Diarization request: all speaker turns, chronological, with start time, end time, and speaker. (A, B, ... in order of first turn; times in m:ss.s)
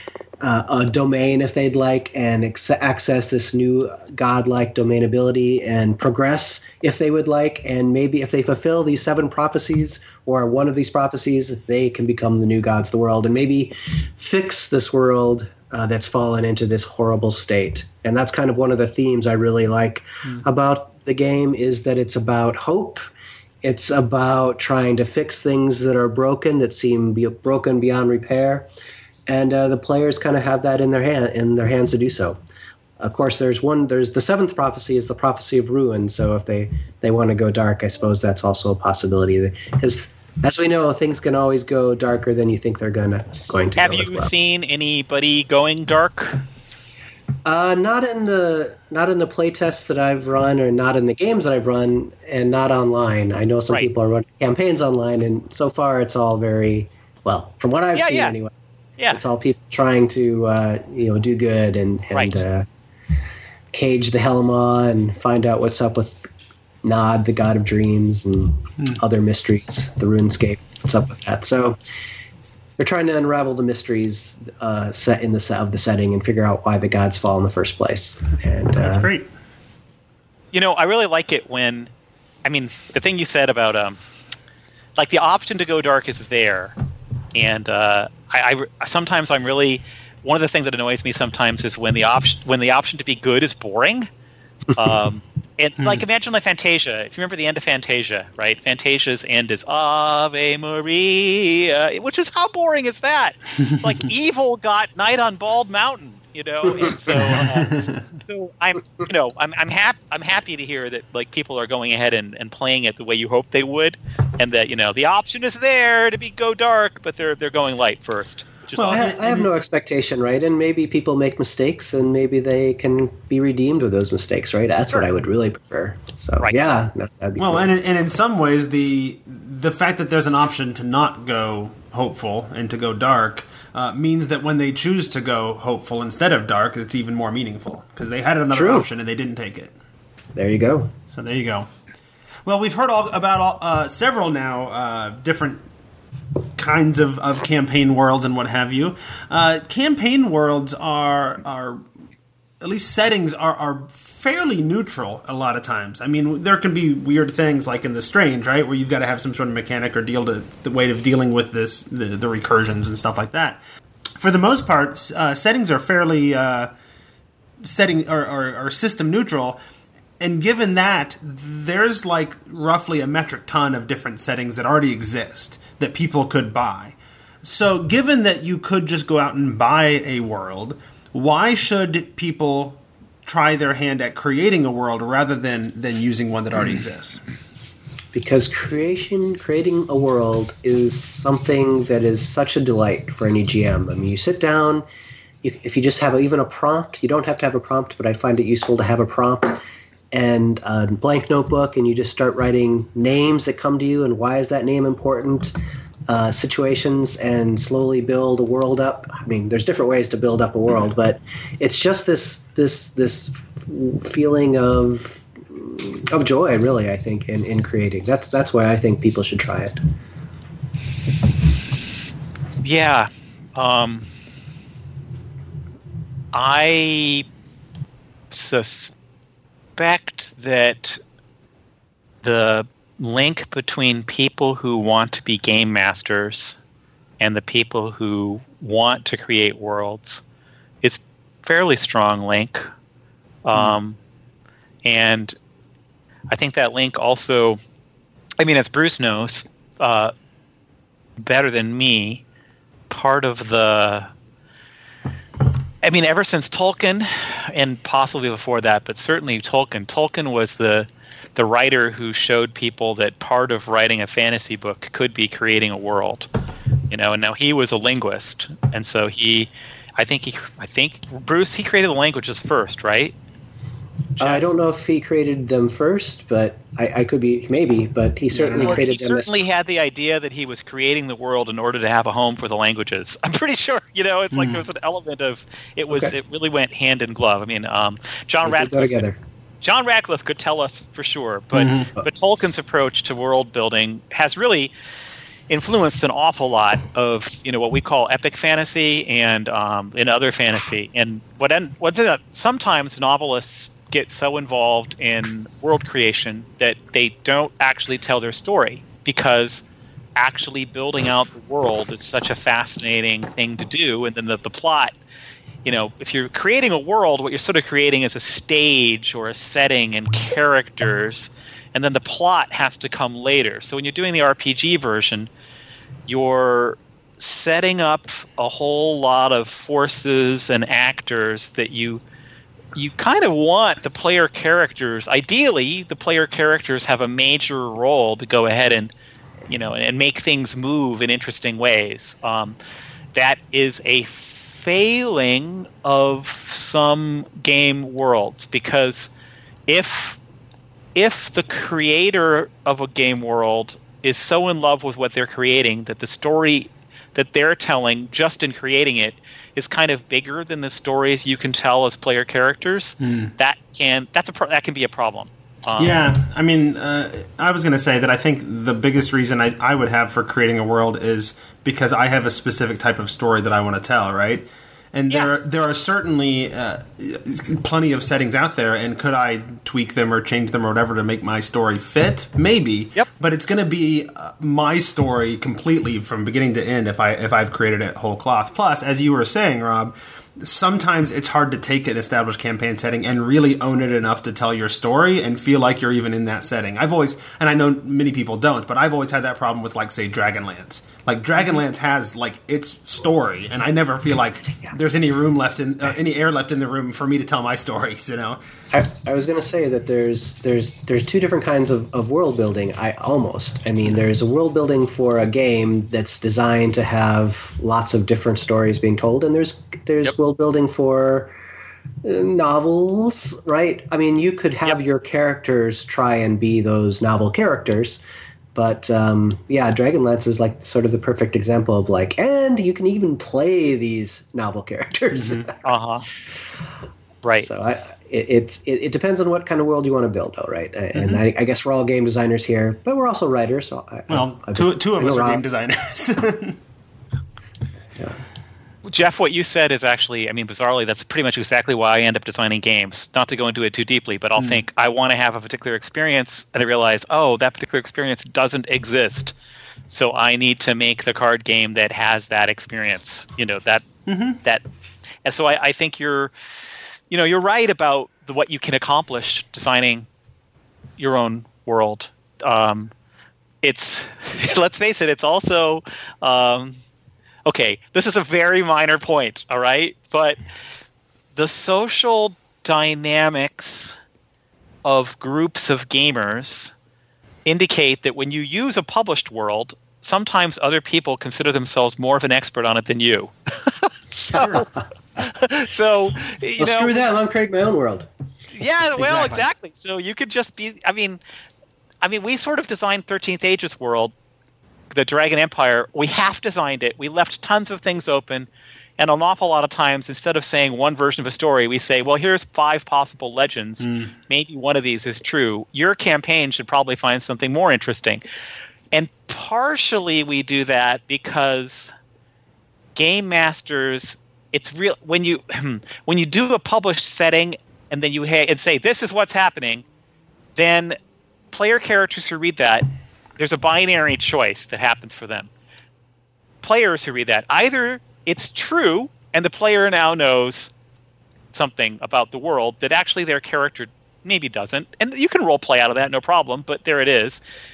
0:00.4-0:23.0 A
0:23.6-0:28.7 A
0:29.3-0:32.4 A
0:33.0-0:44.3 A
0:43.8-0:46.4 B
0:47.4-0:58.5 A
0:57.9-0:58.4 B
0:59.1-1:02.7 A
1:02.1-1:02.4 B
1:03.7-1:06.3 A
1:06.8-1:11.8 A
1:12.8-1:19.1 A
1:18.7-1:19.3 C
1:20.5-1:21.9 B
1:22.4-1:24.0 B
1:25.0-1:26.7 B
1:27.3-1:34.1 B
1:34.7-1:59.0 B
1:47.1-1:48.0 C
1:58.8-1:59.5 C
1:58.9-2:07.7 A
2:06.4-2:06.7 B
2:07.4-2:19.7 C
2:18.5-2:18.9 A
2:20.3-2:20.9 A
2:21.1-2:21.7 C
2:22.4-2:25.6 C
2:26.6-2:31.8 C
2:32.6-2:43.6 C
2:44.2-2:46.7 C
2:47.6-2:49.6 C
2:50.2-3:07.2 C
3:08.1-3:14.8 A
3:15.4-3:25.5 A
3:26.1-3:39.8 A
3:42.6-3:44.1 B
3:46.3-3:47.2 B
3:48.3-3:48.9 B
3:49.8-3:51.0 B
3:52.2-3:56.6 B
3:57.2-4:00.2 B
4:00.8-4:02.7 B
4:03.4-4:04.0 B
4:04.8-4:05.4 B
4:06.3-4:07.6 B
4:08.4-4:10.1 B
4:11.2-4:12.2 B
4:12.9-4:14.1 B
4:15.8-4:26.3 B
4:26.9-4:33.1 B
4:34.2-4:39.4 A
4:34.2-4:34.5 B
4:38.3-4:38.9 C
4:38.6-4:49.0 B
4:44.3-4:44.6 C
4:48.4-4:49.2 A
4:49.6-4:54.7 B
4:51.5-4:51.9 C
4:55.5-5:09.6 B
5:10.2-5:14.9 B
5:15.6-5:25.3 B
5:26.1-5:32.0 B
5:32.7-5:38.9 B
5:39.5-5:42.6 B
5:43.1-5:49.1 B
5:49.7-5:50.2 B
5:51.0-6:06.0 B
6:03.0-6:03.3 C
6:05.8-6:48.4 C
6:48.7-7:01.4 A
7:02.0-7:08.0 A
7:08.5-7:15.5 A
7:15.1-7:15.5 C
7:15.6-7:16.0 B
7:17.2-7:17.5 B
7:17.4-7:25.4 A
7:20.9-7:21.2 C
7:24.1-7:26.6 C
7:28.8-7:39.3 B
7:34.4-7:34.6 C
7:39.9-7:43.8 B
7:44.1-7:44.4 C
7:45.2-7:46.3 B
7:47.1-7:50.0 B
7:51.0-7:52.9 B
7:53.6-7:56.8 B
7:57.5-8:00.4 B
8:01.4-8:04.0 B
8:04.8-8:06.7 B
8:07.4-8:14.6 B
8:14.3-8:14.6 C
8:15.2-8:17.0 B
8:16.6-8:18.1 A
8:18.5-8:21.2 B
8:19.0-8:19.4 C
8:22.0-8:24.1 B
8:24.9-8:38.2 B
8:33.8-8:34.1 C
8:38.9-8:41.9 B
8:42.9-8:49.8 B
8:50.6-8:51.0 B
8:51.5-8:52.8 B
8:53.4-8:55.5 B
8:56.6-9:00.7 B
9:01.5-9:07.4 B